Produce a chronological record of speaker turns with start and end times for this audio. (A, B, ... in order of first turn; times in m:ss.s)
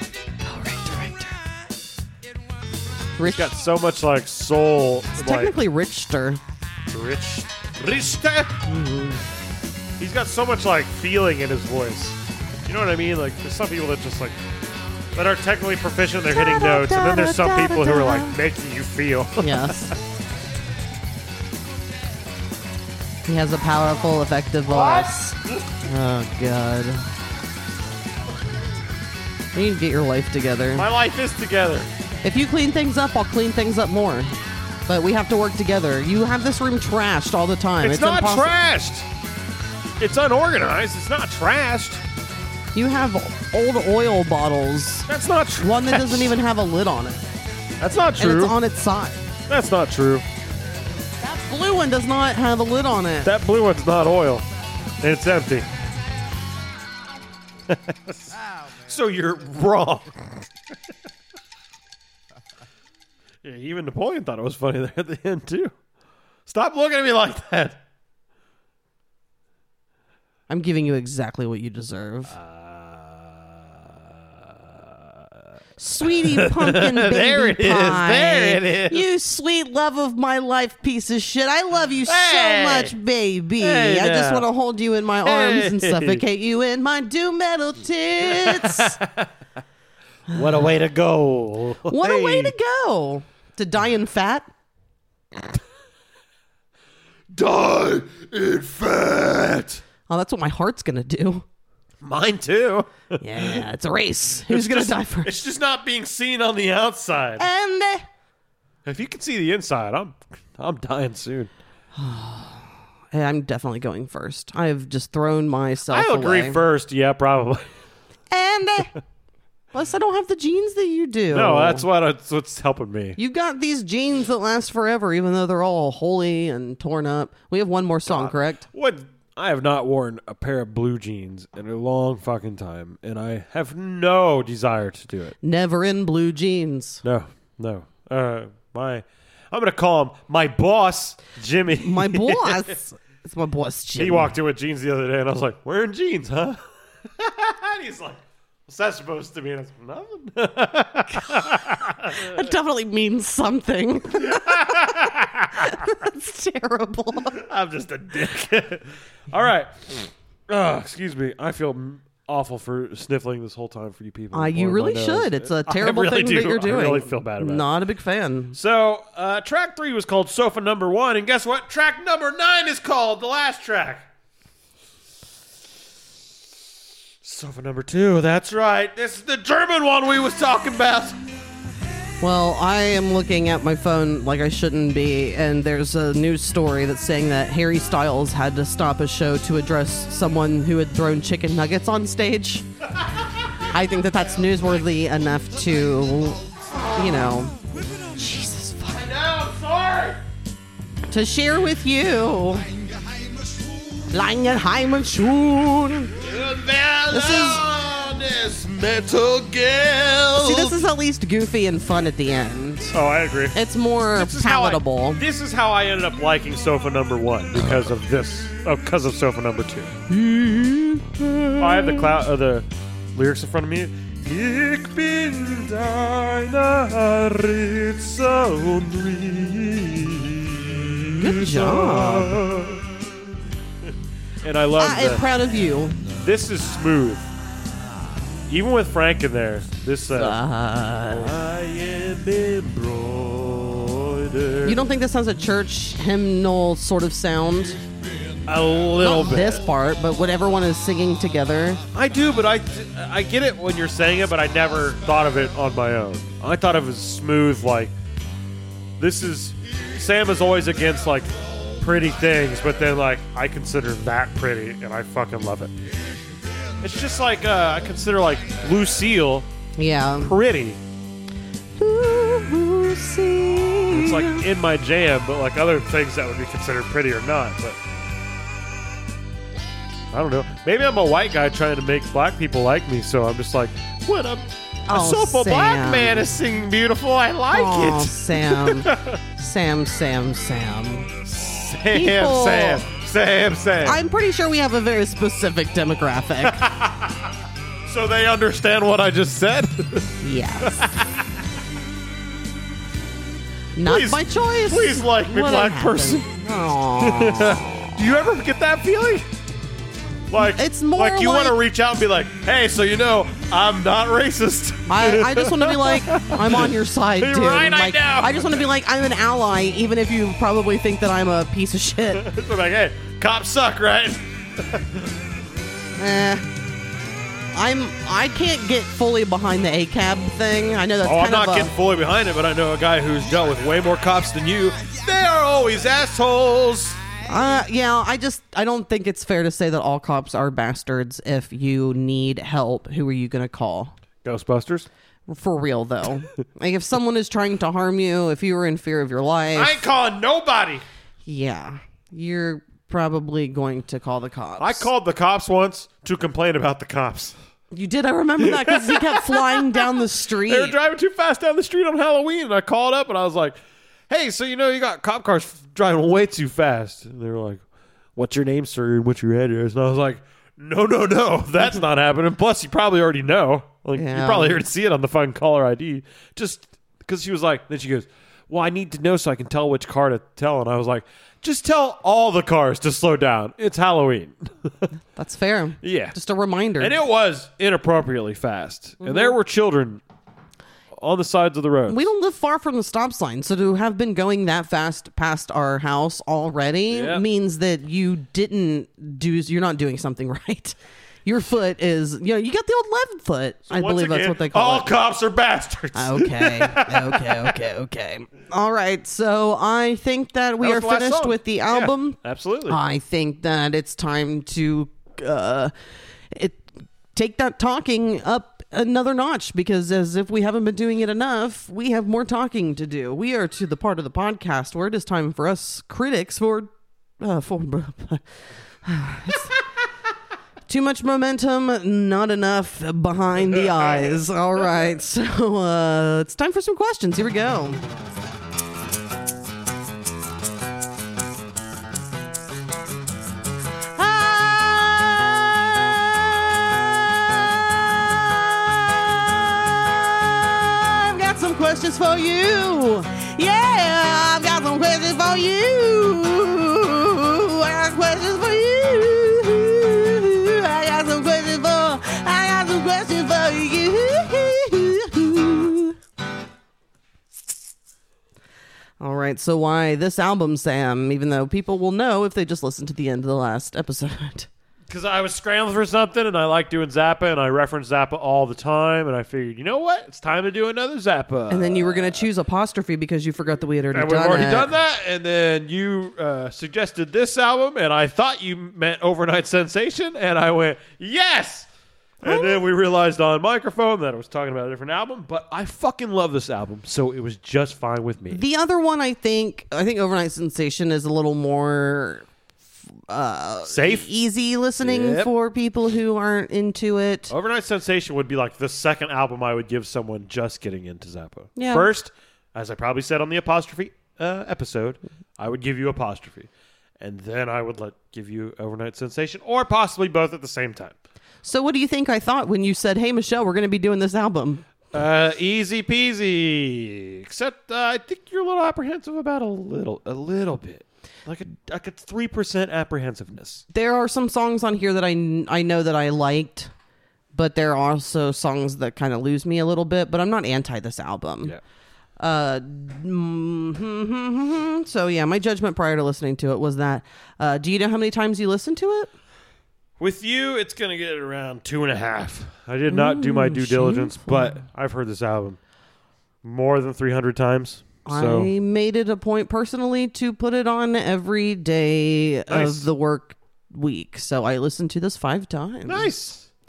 0:00.4-0:01.4 A
0:03.2-0:03.5 A
0:03.2-0:05.6 B
0:05.2-0:06.4 A
0:06.9-0:08.6 B
0:08.6-0:09.2 A
0:10.0-0:14.4 B
0:15.2-0:19.9 B
0:16.3-0:18.4 A
0:19.4-0:19.9 A
0:23.3-0:27.1 A
0:24.7-0:25.6 B
0:29.5-0:30.9 A
0:30.7-0:31.9 B
0:32.2-0:34.3 A
0:34.9-0:38.5 A
0:37.8-0:39.1 B
0:40.0-0:42.0 B
0:42.7-0:45.1 A
0:45.1-0:46.4 B
0:45.6-0:47.2 A
0:47.8-0:48.6 B
0:48.2-0:49.2 A
0:49.5-0:50.3 B
0:51.2-0:53.3 A
0:53.2-0:54.5 B
0:55.0-0:55.7 B
0:57.7-0:58.3 B
0:58.8-1:00.5 B
1:03.4-1:05.7 B
1:06.5-1:07.8 B
1:10.5-1:12.4 A
1:12.3-1:15.4 B
1:15.8-1:29.0 A
1:16.0-1:19.1 B
1:22.1-1:23.0 B
1:23.6-1:24.5 B
1:25.2-1:26.2 B
1:28.2-1:29.3 B
1:30.3-1:32.6 B
1:31.9-1:34.5 A
1:37.3-1:39.8 B
1:40.1-1:41.4 A
1:42.0-1:43.6 B
1:43.2-1:45.3 A
1:44.5-1:47.5 B
1:47.4-1:48.0 A
1:48.8-1:51.5 B
1:52.0-1:56.6 A
1:55.9-1:57.7 B
1:58.3-1:59.0 A
1:59.7-2:01.9 A
2:01.3-2:03.2 B
2:03.2-2:08.6 A
2:08.1-2:15.4 B
2:15.4-2:17.0 A
2:17.0-2:22.8 B
2:21.8-2:24.3 A
2:24.0-2:32.5 B
2:32.1-2:35.0 A
2:34.1-2:35.8 B
2:35.6-2:37.4 A
2:37.3-2:47.7 B
2:44.3-2:48.6 A
2:48.5-2:54.1 B
2:57.2-3:01.2 B
3:02.2-3:12.7 A
3:13.7-3:16.4 A
3:16.9-3:17.6 A
3:18.1-3:19.0 A
3:18.9-3:20.2 B
3:21.1-3:22.7 A
3:24.1-3:26.1 A
3:26.2-3:30.8 B
3:27.1-3:27.6 A
3:30.4-3:33.0 A
3:32.9-3:33.6 B
3:33.5-3:35.2 A
3:34.2-3:39.9 B
3:40.1-3:42.1 A
3:41.6-3:52.9 B
3:51.2-3:52.4 A
3:54.4-3:55.2 B
3:54.8-3:56.0 A
3:56.1-3:57.3 B
3:58.5-4:00.4 B
4:00.2-4:01.4 A
4:01.1-4:04.8 B
4:04.6-4:07.8 A
4:08.5-4:09.7 B
4:09.0-4:11.8 A
4:11.9-4:17.9 B
4:19.0-4:25.8 B
4:26.8-4:29.5 B
4:29.8-4:30.4 A
4:30.2-4:30.8 B
4:31.8-4:34.5 A
4:33.9-4:37.8 B
4:40.1-4:49.2 B
4:44.9-4:46.3 A
4:47.5-4:51.2 A
4:51.2-4:54.0 B
4:51.9-4:52.8 A
4:53.8-4:56.6 A
4:56.4-4:57.3 B
4:57.9-5:01.3 B
5:00.2-5:00.8 A
5:03.8-5:07.9 A
5:03.8-5:06.3 B
5:07.0-5:09.3 B
5:10.3-5:18.7 B
5:10.6-5:11.6 A
5:14.9-5:22.2 A
5:22.1-5:25.1 B
5:26.0-5:26.4 A
5:27.5-5:31.7 A
5:31.0-5:37.0 B
5:37.3-5:43.9 A
5:44.2-5:44.9 B
5:45.3-5:49.8 A
5:49.6-5:50.8 B
5:51.3-5:54.9 A
5:54.6-5:57.4 B
5:57.7-6:00.8 A
5:58.4-6:03.6 B
6:04.1-6:07.6 B
6:08.2-6:24.9 B
6:14.0-6:14.6 A
6:25.2-6:27.0 A
6:25.8-6:26.2 B
6:26.8-6:30.0 B
6:29.0-6:29.4 A
6:31.0-6:32.1 B
6:31.9-6:44.9 A
6:36.9-6:37.2 B
6:43.7-6:47.6 B
6:46.0-6:55.7 A
6:50.6-6:52.8 B
6:56.3-7:06.7 A
7:07.2-7:08.2 A
7:08.8-7:09.6 A
7:10.7-7:17.8 A
7:24.0-7:46.0 A
7:49.0-7:54.5 A
7:54.9-8:02.3 B
8:01.5-8:04.7 A
8:03.9-8:11.7 B
8:12.2-8:18.4 B
8:12.2-8:12.6 A
8:18.3-8:22.3 A
8:23.1-8:27.3 A
8:23.7-8:24.1 B
8:24.8-8:25.3 B
8:27.3-8:40.9 B
8:31.6-8:31.9 A
8:41.4-8:44.7 A
8:44.9-8:53.6 B
8:53.7-8:56.7 A
8:57.3-9:01.6 A
9:02.2-9:09.1 A
9:10.0-9:15.6 B
9:12.9-9:14.6 A
9:16.4-9:18.5 B
9:18.1-9:26.1 A
9:22.5-9:22.9 B
9:25.9-9:26.5 B